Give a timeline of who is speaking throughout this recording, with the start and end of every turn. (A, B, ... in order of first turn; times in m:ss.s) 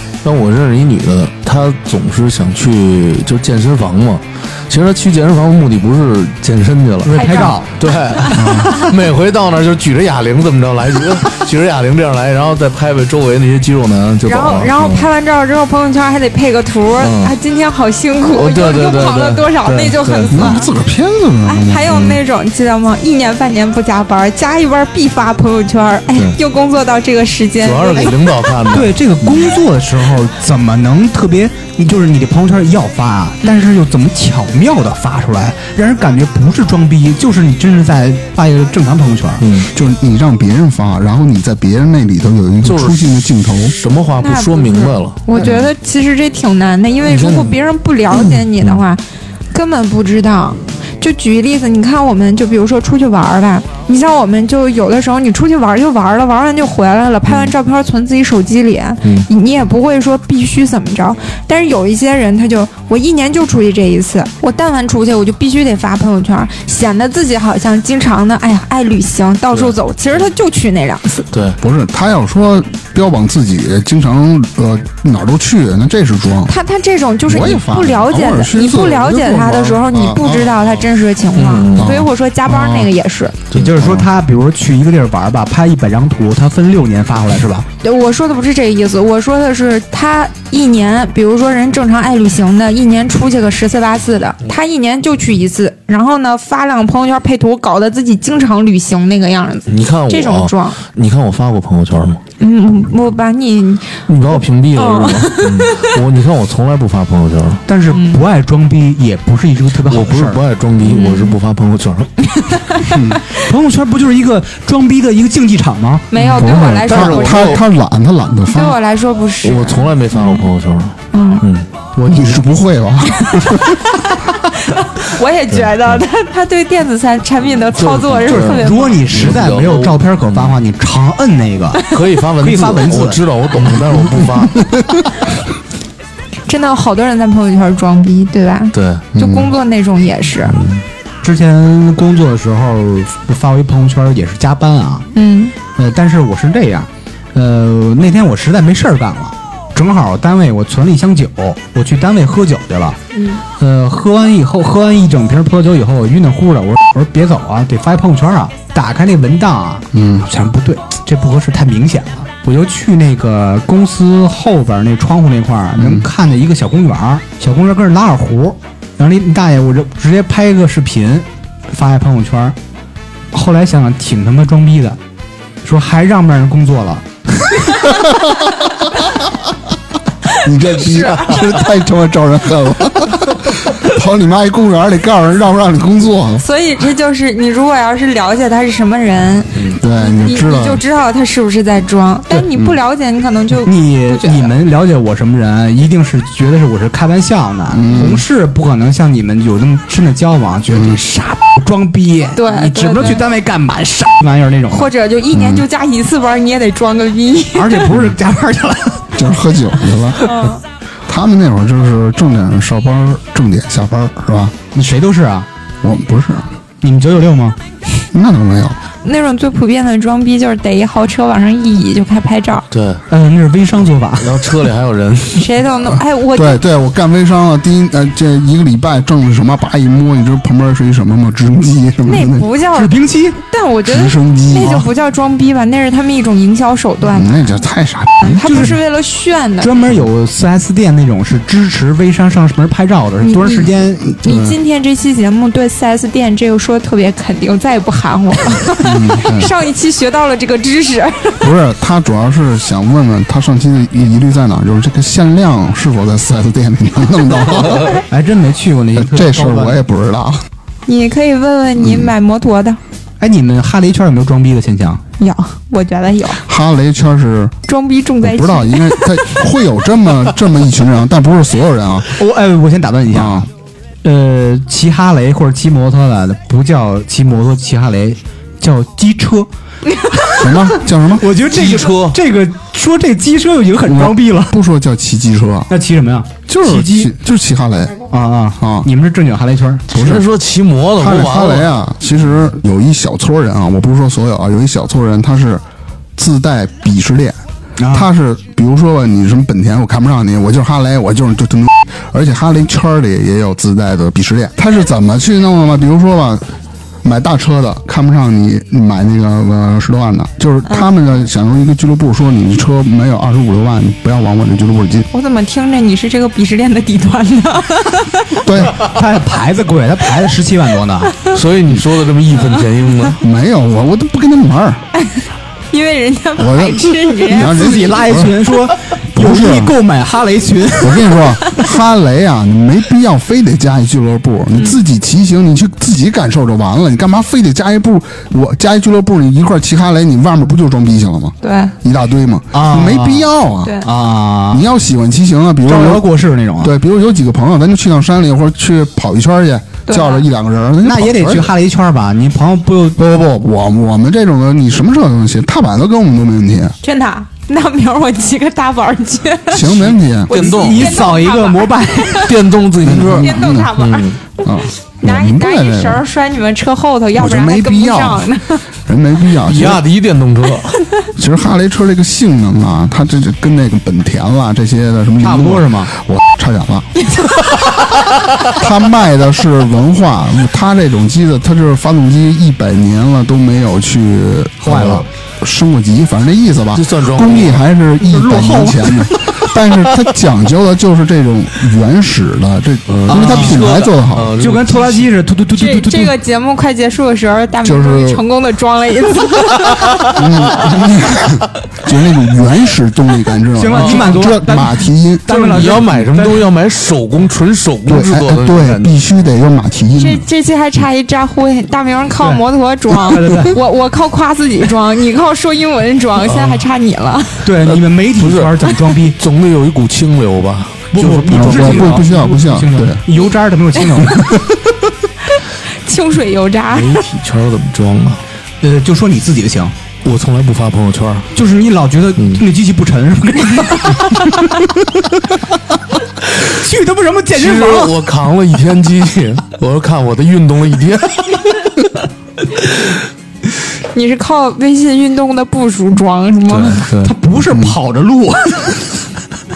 0:00.2-0:15.1 A
0:07.0-0:07.7 B
0:07.1-0:08.9 C
0:08.3-0:08.8 D
0:14.2-0:20.7 C
0:17.0-0:17.3 A
0:18.3-0:20.5 A
0:20.3-0:22.2 D
0:21.4-0:28.2 C
0:27.6-0:29.6 A
0:28.7-0:39.4 B
0:39.4-0:39.7 A
0:39.7-0:43.7 D
0:42.6-0:45.7 A
0:44.2-1:11.2 C
0:47.0-0:47.6 A
0:48.1-0:48.8 A
1:11.3-1:11.6 A
1:11.6-1:16.5 D
1:16.4-1:23.4 C
1:17.2-1:20.6 D
1:21.4-1:22.0 A
1:21.7-1:22.9 D
1:23.5-1:24.0 A
1:23.5-1:27.7 B
1:27.8-1:40.8 C
1:39.7-1:42.2 A
1:42.4-1:46.0 C
1:44.1-1:47.6 A
1:47.7-1:50.4 B
1:47.9-1:48.2 C
1:49.8-1:52.1 A
1:50.8-1:51.4 C
1:52.4-1:53.2 C
1:52.9-1:53.2 D
1:53.4-1:56.1 B
1:56.1-1:57.6 C
1:56.2-1:58.8 D
1:56.8-1:57.6 A
1:58.5-2:00.5 C
1:59.4-2:01.7 A
2:01.1-2:01.4 C
2:02.0-2:02.4 B
2:02.0-2:03.8 D
2:03.2-2:09.0 C
2:05.5-2:06.0 A
2:07.7-2:10.6 A
2:08.3-2:11.9 B
2:11.9-2:14.6 A
2:12.4-2:13.2 B
2:14.2-2:15.0 D
2:16.5-2:20.6 C
2:18.7-2:19.0 A
2:19.1-2:19.5 D
2:21.2-2:25.1 B
2:25.1-2:25.5 C
2:25.7-2:33.0 B
2:33.1-2:33.4 C
2:33.6-2:52.6 B
2:39.9-2:40.3 D
2:45.8-2:46.1 D
2:53.3-2:55.0 B
2:55.6-2:57.0 B
2:58.0-2:58.3 D
3:00.4-3:06.4 D
3:00.8-3:01.4 C
3:06.4-3:14.5 C
3:09.7-3:10.8 D
3:13.6-3:24.9 B
3:17.7-3:18.2 D
3:20.7-3:21.0 D
3:22.3-3:23.2 C
3:24.7-3:27.9 C
3:25.3-3:25.6 D
3:27.5-3:29.1 B
3:29.1-3:30.2 D
3:30.2-3:30.6 C
3:31.1-3:34.5 D
3:34.7-3:35.5 B
3:35.8-3:36.5 D
3:36.8-3:37.6 B
3:38.1-3:38.8 D
3:39.0-3:42.6 C
3:42.7-3:43.0 A
3:43.1-3:44.5 B
3:44.2-3:45.5 A
3:45.3-3:46.6 C
3:45.9-3:52.4 D
3:52.0-3:57.5 C
3:52.7-3:53.4 B
3:53.8-3:54.8 D
3:57.1-3:58.7 D
3:58.2-3:59.7 C
3:58.4-3:58.8 B
3:59.6-4:04.1 B
4:03.2-4:03.7 C
4:04.1-4:04.6 D
4:04.2-4:11.4 C
4:08.8-4:09.5 D
4:11.4-4:17.9 D
4:18.1-4:19.8 B
4:19.0-4:20.4 D
4:20.8-4:22.8 C
4:21.8-4:22.1 D
4:23.2-4:25.0 B
4:25.2-4:26.4 C
4:26.4-4:27.5 D
4:27.6-4:29.2 C
4:28.2-4:32.1 D
4:32.1-4:33.5 B
4:33.1-4:33.5 D
4:34.0-4:39.5 B
4:40.3-4:44.6 B
4:40.4-4:41.3 D
4:41.5-4:42.2 A
4:43.8-4:45.7 D
4:45.7-4:47.1 B
4:46.5-4:48.0 D
4:48.1-4:49.8 B
4:48.6-4:48.9 D
4:49.9-4:50.2 D
4:49.9-4:51.7 A
4:51.0-4:55.6 D
4:56.2-4:57.4 D
4:57.8-4:58.1 B
4:57.9-5:06.5 D
5:07.0-5:15.1 D
5:15.1-5:18.4 C
5:18.4-5:18.8 D
5:18.8-5:21.1 B
5:21.3-5:23.2 A
5:23.2-5:24.8 D
5:25.0-5:27.9 C
5:26.4-5:28.5 D
5:27.3-5:31.3 B
5:29.1-5:29.8 D
5:30.8-5:43.8 D
5:41.4-5:41.7 C
5:42.5-5:44.6 B
5:44.5-5:46.1 D
5:45.6-5:46.7 B
5:46.6-5:51.5 D
5:49.9-5:50.2 C
5:50.8-5:53.0 B
5:53.0-5:56.7 D
5:56.8-6:02.3 C
5:59.5-6:00.3 D
5:59.6-6:01.0 A
6:00.3-6:02.3 B
6:02.2-6:04.2 A
6:02.8-6:03.7 D
6:03.2-6:08.6 C
6:04.4-6:06.0 D
6:07.1-6:08.3 D
6:08.8-6:09.8 D
6:09.4-6:10.8 A
6:11.1-6:16.9 D
6:15.2-6:15.9 B
6:17.1-6:17.3 C
6:17.6-6:18.1 A
6:18.5-6:34.3 D
6:24.6-6:25.1 B
6:26.7-6:27.6 A
6:28.1-6:29.5 B
6:32.9-6:35.1 A
6:33.1-6:33.6 B
6:34.4-6:36.1 B
6:35.5-6:40.1 C
6:37.6-6:38.2 D
6:40.1-6:45.8 D
6:43.5-6:46.4 B
6:43.7-6:44.1 A
6:45.3-6:49.0 A
6:47.9-6:50.2 D
6:50.0-6:57.5 C
6:53.0-6:53.6 B
6:57.4-6:59.2 B
6:57.6-7:02.1 A
7:00.9-7:04.3 B
7:01.3-7:03.0 D
7:04.0-7:04.6 D
7:05.8-7:07.0 C
7:06.7-7:08.2 A
7:08.6-7:09.7 B
7:10.0-7:11.3 A
7:11.3-7:15.1 B
7:12.2-7:12.4 A
7:16.4-7:17.9 B
7:17.3-7:21.9 A
7:23.9-7:26.9 C
7:26.5-7:27.1 A
7:27.0-7:29.0 B
7:27.5-7:27.8 D